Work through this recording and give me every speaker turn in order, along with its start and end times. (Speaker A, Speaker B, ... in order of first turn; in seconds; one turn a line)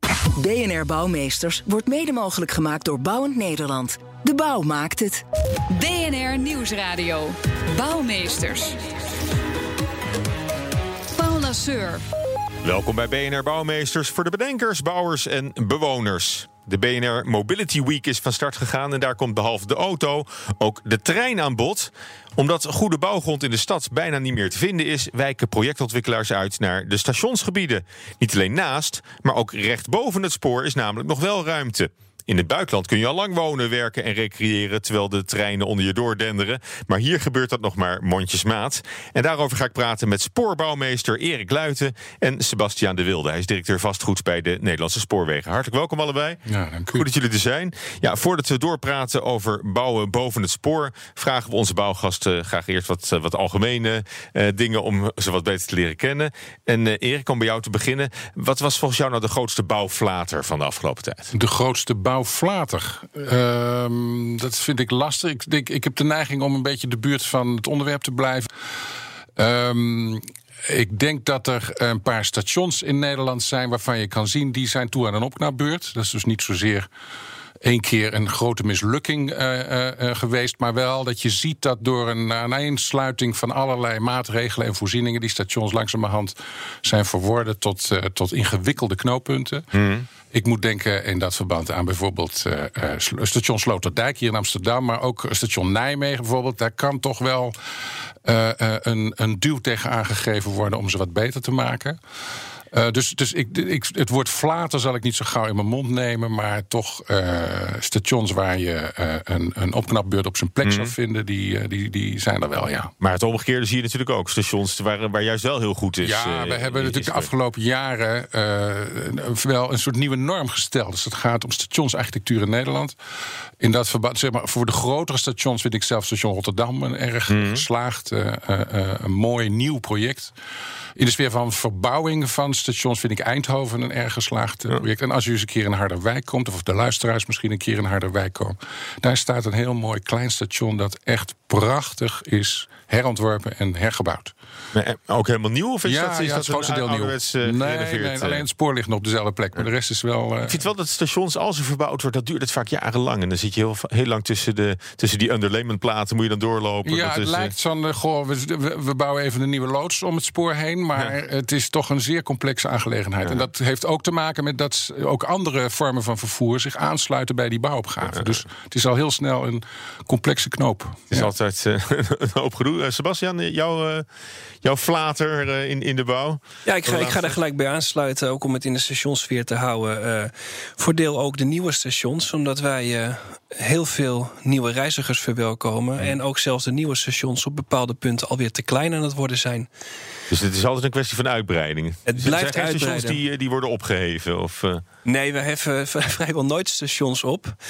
Speaker A: 0.4-5.2
Speaker B: 5.7-8.8
Speaker B: 11.1-12.0
Speaker C: 12.6-61.3
Speaker D: 46.5-47.1
Speaker D: 61.3-68.5
Speaker D: 69.3-76.9
Speaker D: 77.6-89.7
Speaker C: 89.7-90.0
Speaker D: 90.3-97.5
Speaker D: 98.2-102.0
Speaker D: 102.7-112.9
Speaker C: 110.6-110.9
Speaker C: 113.0-117.3
Speaker D: 116.0-123.0
Speaker D: 123.6-130.3
Speaker C: 127.3-127.6
Speaker D: 130.9-144.3
Speaker C: 144.7-148.4
Speaker D: 145.8-150.6
Speaker C: 150.4-157.5
Speaker D: 156.8-171.3
Speaker C: 168.0-168.3
Speaker C: 171.1-174.1
Speaker C: 174.6-177.4
Speaker E: 176.7-189.7
Speaker C: 190.3-194.8
Speaker E: 192.1-193.2
Speaker E: 195.0-197.5